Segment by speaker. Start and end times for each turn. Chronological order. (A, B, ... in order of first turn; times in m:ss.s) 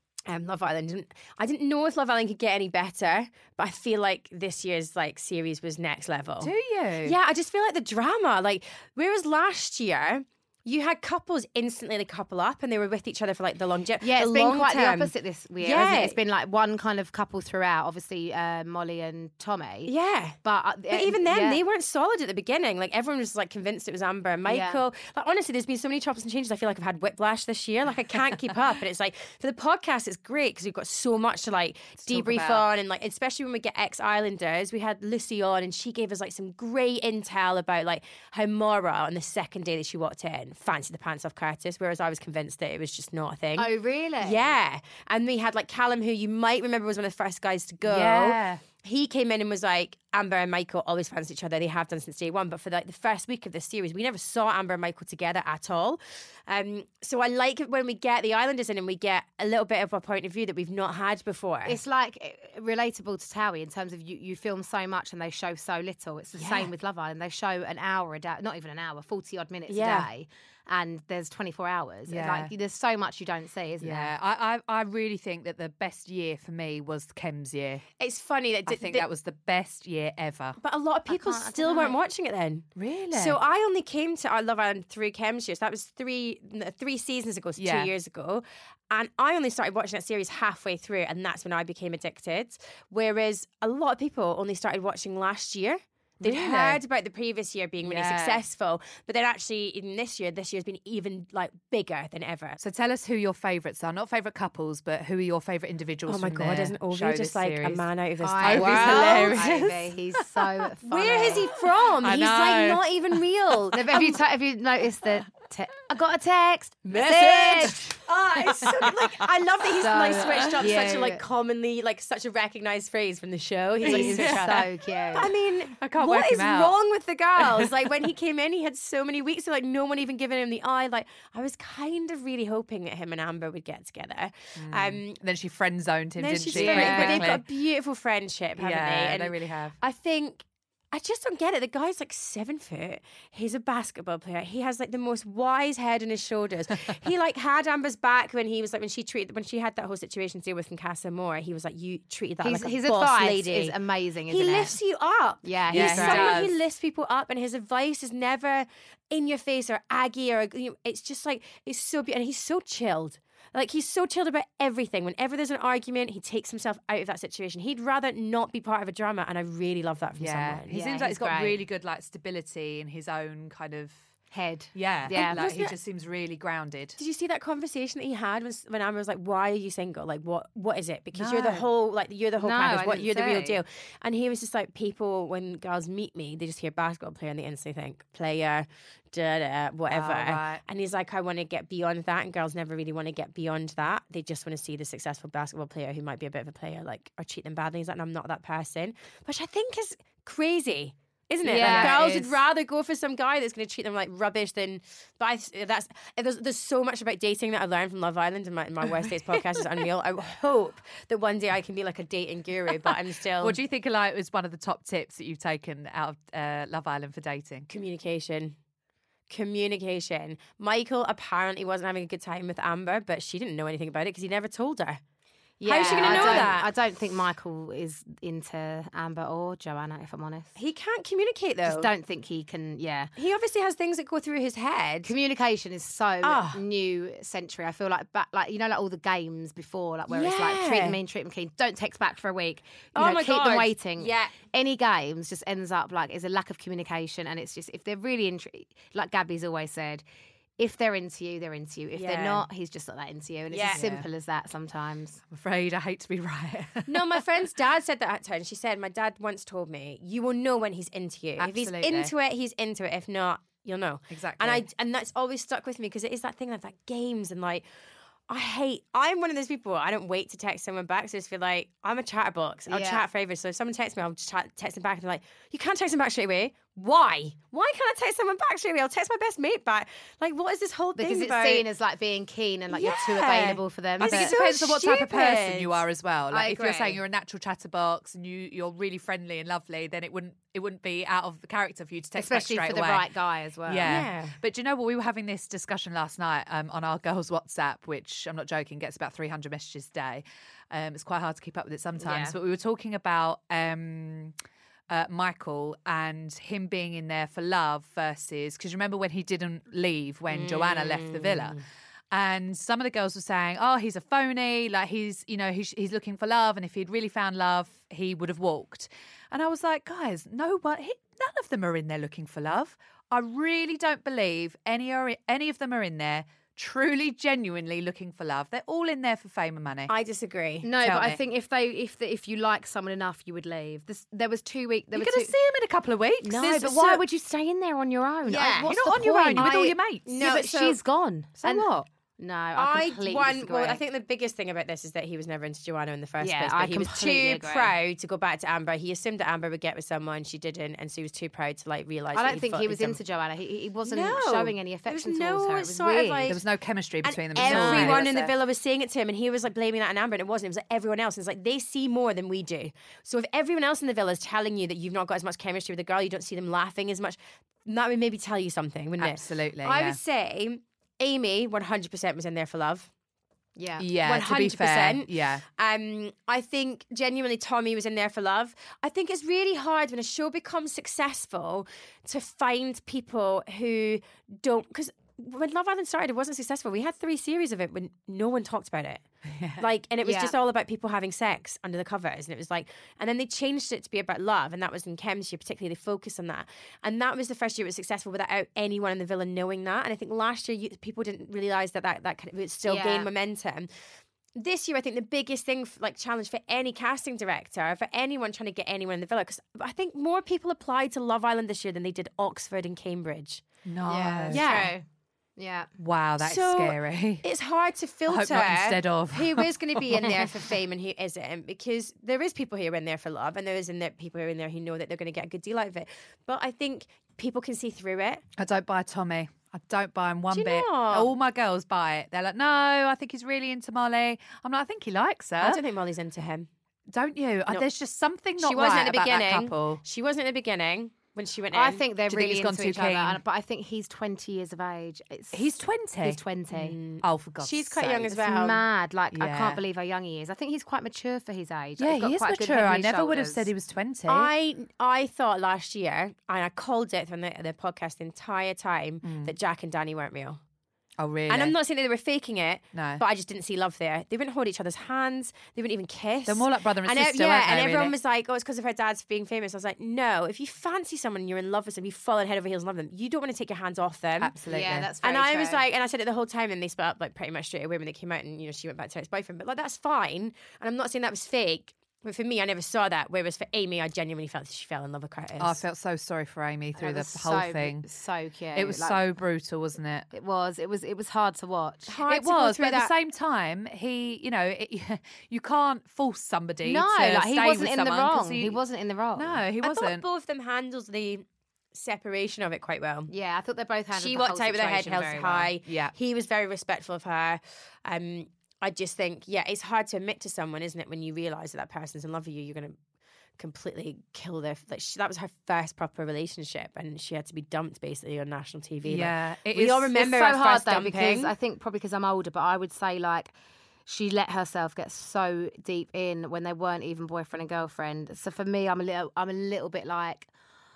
0:00.3-0:06.5 A
0:06.4-0:07.2 B
0:07.0-0:16.2 A
0:14.0-0:19.9 C
0:19.9-0:20.4 A
0:20.4-0:21.6 C
0:20.9-0:43.7 A
0:24.5-0:24.8 C
0:32.0-0:32.7 B
0:43.6-0:44.6 C
0:44.2-1:01.8 A
0:47.8-0:48.6 B
1:01.6-1:14.1 C
1:06.4-1:06.7 A
1:09.7-1:10.1 A
1:12.1-1:12.5 B
1:13.8-1:17.8 B
1:18.0-1:19.1 A
1:18.7-1:20.6 B
1:20.6-1:42.6 A
1:21.1-1:22.0 C
1:22.8-1:23.4 B
1:27.6-1:27.9 B
1:36.2-1:36.8 B
1:37.8-1:38.4 B
1:42.6-1:47.9 B
1:46.1-1:49.8 A
1:48.2-1:51.5 C
1:48.4-1:50.5 B
1:50.9-1:54.1 A
1:52.0-1:54.0 B
1:53.7-1:58.0 C
1:56.9-2:15.2 A
1:58.3-2:00.6 B
1:59.8-2:01.2 C
2:03.8-2:04.6 B
2:03.8-2:05.3 C
2:05.8-2:06.8 B
2:07.4-2:07.7 B
2:14.6-2:17.4 B
2:16.2-2:33.8 A
2:16.5-2:17.3 C
2:18.6-2:19.8 B
2:32.4-2:34.8 C
2:34.3-2:50.7 A
2:35.4-2:36.5 C
2:35.7-2:36.5 B
2:50.2-2:54.0 B
2:50.7-2:51.6 C
2:54.3-2:55.4 C
2:54.7-2:57.0 B
2:55.1-2:55.8 A
2:57.0-3:33.6 A
3:01.1-3:01.7 B
3:02.4-3:03.6 C
3:09.9-3:10.6 B
3:21.4-3:22.1 C
3:21.5-3:22.4 B
3:33.4-3:37.7 B
3:37.7-3:38.6 A
3:39.3-3:45.0 A
3:45.6-3:50.5 C
3:45.6-3:46.7 A
3:45.8-3:46.6 B
3:50.6-3:51.9 A
3:51.6-3:53.1 C
3:53.2-3:55.1 A
3:55.0-4:10.0 C
3:56.2-3:56.6 A
4:00.1-4:01.0 A
4:03.0-4:04.4 A
4:10.6-4:15.2 C
4:11.9-4:12.4 A
4:13.5-4:13.8 A
4:13.7-4:14.1 B
4:15.3-4:17.2 B
4:16.9-4:27.6 A
4:21.4-4:22.1 B
4:24.1-4:24.6 B
4:28.3-4:41.7 A
4:32.7-4:33.0 C
4:41.0-4:44.4 C
4:42.7-4:45.8 A
4:44.0-4:53.0 B
4:46.3-4:47.0 C
4:52.2-4:54.0 C
4:53.7-5:04.4 B
4:53.8-4:54.4 A
5:02.0-5:02.3 C
5:04.9-5:11.6 B
5:10.3-5:11.6 A
5:12.1-5:29.9 B
5:29.9-5:30.7 A
5:30.6-5:35.3 C
5:30.8-5:31.2 B
5:34.9-5:37.0 B
5:36.2-5:43.8 C
5:38.3-5:38.8 A
5:38.4-5:40.1 B
5:39.4-5:40.8 A
5:41.4-5:41.9 B
5:42.6-5:53.0 A
5:46.2-5:47.7 C
5:52.2-5:56.4 C
5:53.9-5:56.4 A
5:56.3-5:58.3 B
5:57.0-6:12.9 A
5:57.4-5:58.1 C
6:09.0-6:10.0 B
6:13.6-6:13.9 C
6:13.8-6:15.4 B
6:14.0-6:29.0 A
6:29.3-6:29.6 B
6:29.6-6:43.7 A
6:30.0-6:30.3 C
6:42.6-6:43.1 C
6:44.4-6:53.4 A
6:53.7-6:54.5 B
6:53.9-6:54.8 C
6:54.3-6:54.7 A
6:55.4-6:55.7 C
6:55.8-6:57.2 B
6:56.2-7:08.2 A
6:58.1-7:00.3 B
7:00.0-7:00.3 C
7:08.4-7:15.6 B
7:10.3-7:11.1 A
7:15.4-7:16.5 A
7:16.9-7:19.8 B
7:18.4-7:21.8 A
7:21.5-7:26.8 C
7:22.1-7:23.2 B
7:25.3-7:26.2 B
7:26.5-7:28.6 A
7:27.0-7:28.1 B
7:28.1-7:33.5 C
7:29.1-7:29.6 B
7:31.8-7:34.3 B
7:34.1-7:40.4 A
7:39.0-7:39.3 B
7:41.0-7:41.6 B
7:41.3-7:54.4 A
7:42.7-7:43.0 B
7:46.3-7:48.0 B
7:54.2-7:54.9 B
7:54.5-7:55.6 C
7:55.0-8:05.6 A
8:05.4-8:07.9 B
8:06.8-8:09.0 C
8:08.6-8:10.1 B
8:10.1-8:12.0 C
8:11.9-8:12.9 A
8:12.1-8:18.6 B
8:16.6-8:19.4 C
8:19.2-8:20.0 B
8:19.6-8:23.1 A
8:23.1-8:25.5 C
8:23.9-8:32.8 A
8:25.6-8:25.9 B
8:33.4-8:41.3 A
8:38.8-8:40.0 B
8:40.0-8:43.3 C
8:43.9-8:50.3 C